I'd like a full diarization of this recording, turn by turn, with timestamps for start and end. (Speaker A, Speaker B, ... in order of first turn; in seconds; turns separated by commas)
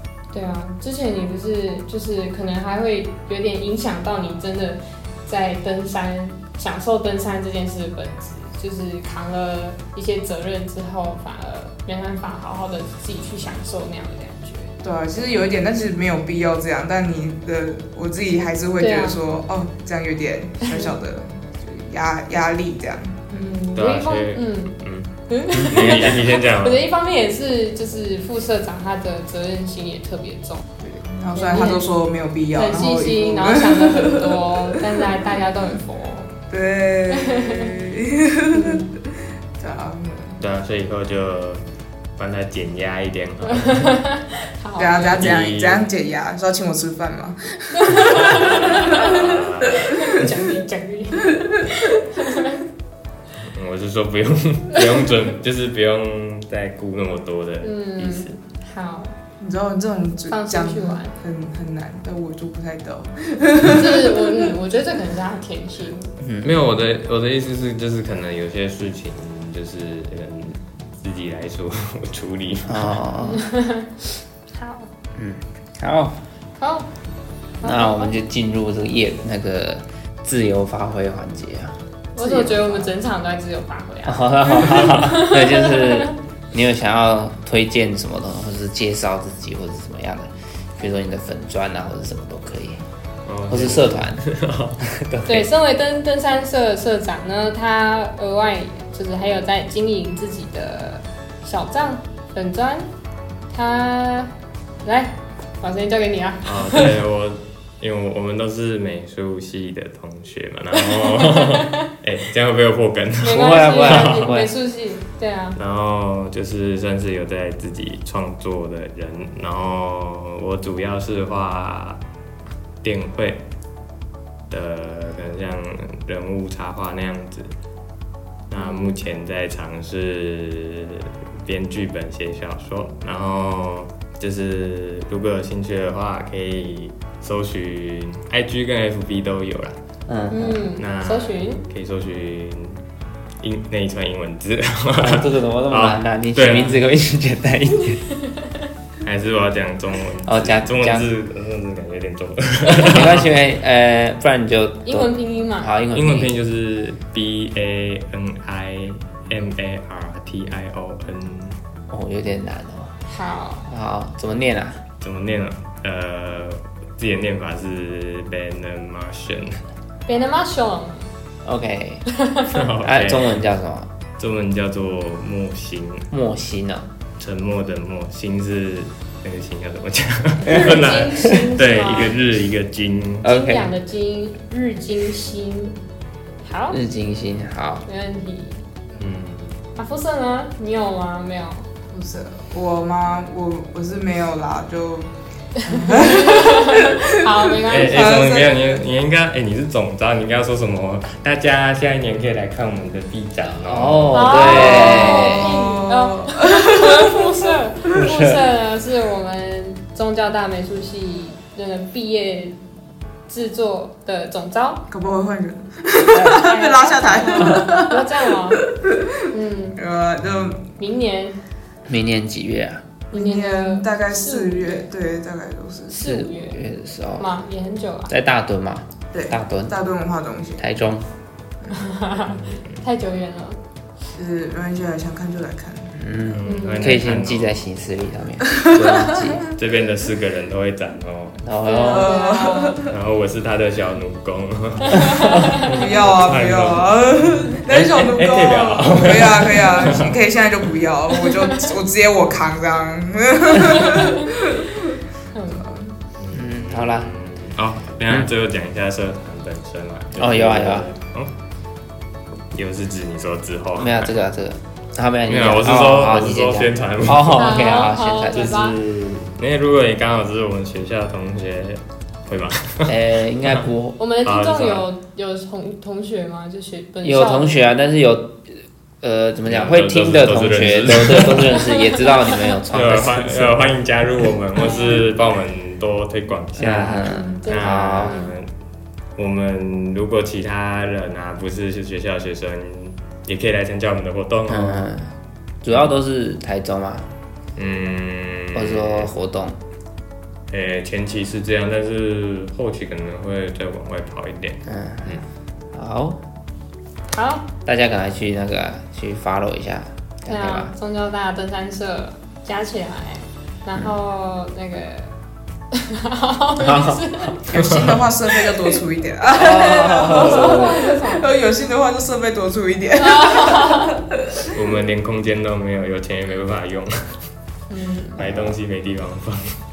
Speaker A: 0.3-14.7, Speaker B: 14.8-23.4, Speaker A: 18.8-19.2, Speaker A: 20.6-20.9, Speaker A: 23.3-24.8, Speaker C: 23.8-25.1, Speaker A: 25.3-30.6, Speaker D: 25.5-26.2, Speaker C: 25.7-26.9, Speaker B: 30.8-35.0, Speaker A: 31.4-31.9, Speaker A: 32.5-36.3, Speaker B: 36.5-39.1, Speaker A: 37.1-37.7, Speaker A: 38.6-38.8, Speaker B: 39.6-40.4, Speaker C: 40.4-41.6, Speaker C: 42.2-43.9, Speaker A: 43.5-45.2, Speaker B: 44.8-49.2, Speaker C: 45.1-45.8, Speaker A: 47.7-52.6, Speaker C: 48.2-50.0, Speaker B: 49.7-50.0, Speaker C: 53.4-58.4, Speaker A: 57.6-59.2, Speaker B: 59.4-64.5, Speaker A: 60.3-61.1, Speaker A: 63.6-66.1, Speaker D: 66.2-66.5, Speaker C: 66.4-73.0, Speaker D: 72.7-73.4, Speaker A: 73.2-74.9, Speaker D: 75.2-76.2, Speaker A: 76.6-76.9, Speaker A: 77.6-78.2, Speaker D: 77.6-82.9, Speaker A: 82.2-86.2, Speaker D: 84.0-92.8, Speaker C: 93.3-94.8, Speaker D: 93.5-94.2, Speaker D: 94.8-95.5, Speaker A: 95.3-102.9, Speaker A: 103.5-104.3, Speaker A: 104.8-107.0, Speaker C: 106.4-114.3, Speaker A: 111.0-111.8, Speaker A: 113.2-115.6, Speaker D: 113.4-114.5, Speaker C: 115.6-122.0, Speaker C: 122.8-123.4, Speaker C: 124.5-127.5, Speaker C: 128.5-139.8, Speaker A: 128.6-129.0, Speaker D: 140.1-140.7, Speaker A: 140.3-141.7, Speaker C: 140.8-142.8, Speaker C: 143.4-146.9, Speaker D: 145.0-148.0, Speaker A: 148.2-148.7, Speaker C: 149.0-153.3, Speaker D: 150.3-151.1, Speaker D: 152.8-156.3, Speaker A: 154.9-155.7, Speaker C: 155.9-161.6, Speaker D: 161.9-162.9, Speaker A: 163.1-163.7, Speaker D: 163.7-164.8, Speaker C: 165.0-169.6, Speaker A: 170.1-171.1, Speaker D: 171.4-172.0, Speaker A: 172.2-172.6, Speaker C: 172.5-173.4, Speaker D: 172.8-173.9, Speaker C: 174.2-176.1, Speaker D: 176.1-176.9, Speaker C: 177.2-183.3, Speaker A: 180.4-182.2, Speaker D: 180.5-181.3, Speaker D: 183.2-183.7, Speaker A: 183.2-185.8, Speaker A: 186.4-186.8, Speaker D: 186.7-187.8, Speaker A: 187.8-188.6, Speaker C: 189.0-189.6, Speaker A: 189.8-191.7, Speaker B: 191.9-195.1, Speaker B: 195.6-198.8, Speaker A: 195.7-198.4, Speaker C: 197.7-204.3, Speaker D: 203.7-205.6, Speaker A: 204.1-212.6, Speaker B: 204.3-207.5, Speaker D: 207.9-208.4, Speaker A: 213.3-214.9, Speaker B: 214.9-219.2, Speaker A: 216.2-218.6, Speaker A: 219.3-219.8, Speaker B: 219.8-220.6, Speaker C: 220.2-220.6, Speaker A: 220.7-221.4, Speaker D: 221.9-222.8, Speaker B: 223.1-226.0, Speaker A: 223.1-224.7, Speaker A: 225.9-226.6, Speaker D: 225.9-227.3, Speaker A: 227.2-228.1, Speaker D: 228.1-229.8, Speaker B: 229.1-230.7, Speaker D: 230.6-231.1, Speaker A: 231.7-233.6, Speaker C: 232.5-232.8, Speaker B: 234.2-236.0, Speaker D: 236.0-239.4, Speaker C: 236.2-237.7, Speaker A: 236.4-237.0, Speaker B: 238.6-239.5, Speaker C: 239.4-241.4, Speaker D: 241.4-242.1, Speaker A: 241.6-242.8, Speaker B: 241.8-242.9, Speaker C: 242.9-250.2, Speaker A: 244.9-245.6, Speaker B: 245.7-255.9, Speaker A: 253.8-254.3, Speaker A: 255.3-255.6, Speaker C: 256.2-261.3, Speaker D: 256.3-257.1, Speaker D: 260.2-260.9, Speaker C: 262.5-264.1, Speaker D: 263.8-268.5, Speaker C: 265.3-267.6, Speaker A: 267.3-268.8, Speaker C: 268.3-273.7, Speaker D: 272.9-274.0, Speaker A: 274.0-277.6, Speaker C: 274.2-274.9, Speaker D: 277.0-283.7, Speaker C: 279.5-281.7, Speaker A: 281.6-282.6, Speaker C: 282.7-288.5, Speaker A: 284.6-285.1, Speaker D: 286.6-288.2, Speaker A: 287.1-288.3, Speaker C: 289.2-294.9, Speaker D: 294.5-297.1, Speaker C: 297.6-299.1, Speaker D: 298.6-299.6, Speaker C: 300.5-305.2, Speaker D: 304.7-305.2, Speaker D: 305.7-306.2, Speaker A: 307.1-307.5, Speaker D: 307.7-310.7, Speaker A: 310.3-315.1, Speaker A: 315.7-317.5, Speaker D: 316.6-317.4, Speaker B: 317.5-324.5, Speaker C: 317.5-318.0, Speaker D: 319.3-320.8, Speaker A: 320.1-321.3, Speaker A: 323.0-324.0, Speaker C: 324.5-327.2, Speaker A: 327.7-328.2, Speaker C: 328.2-329.6, Speaker D: 328.2-328.6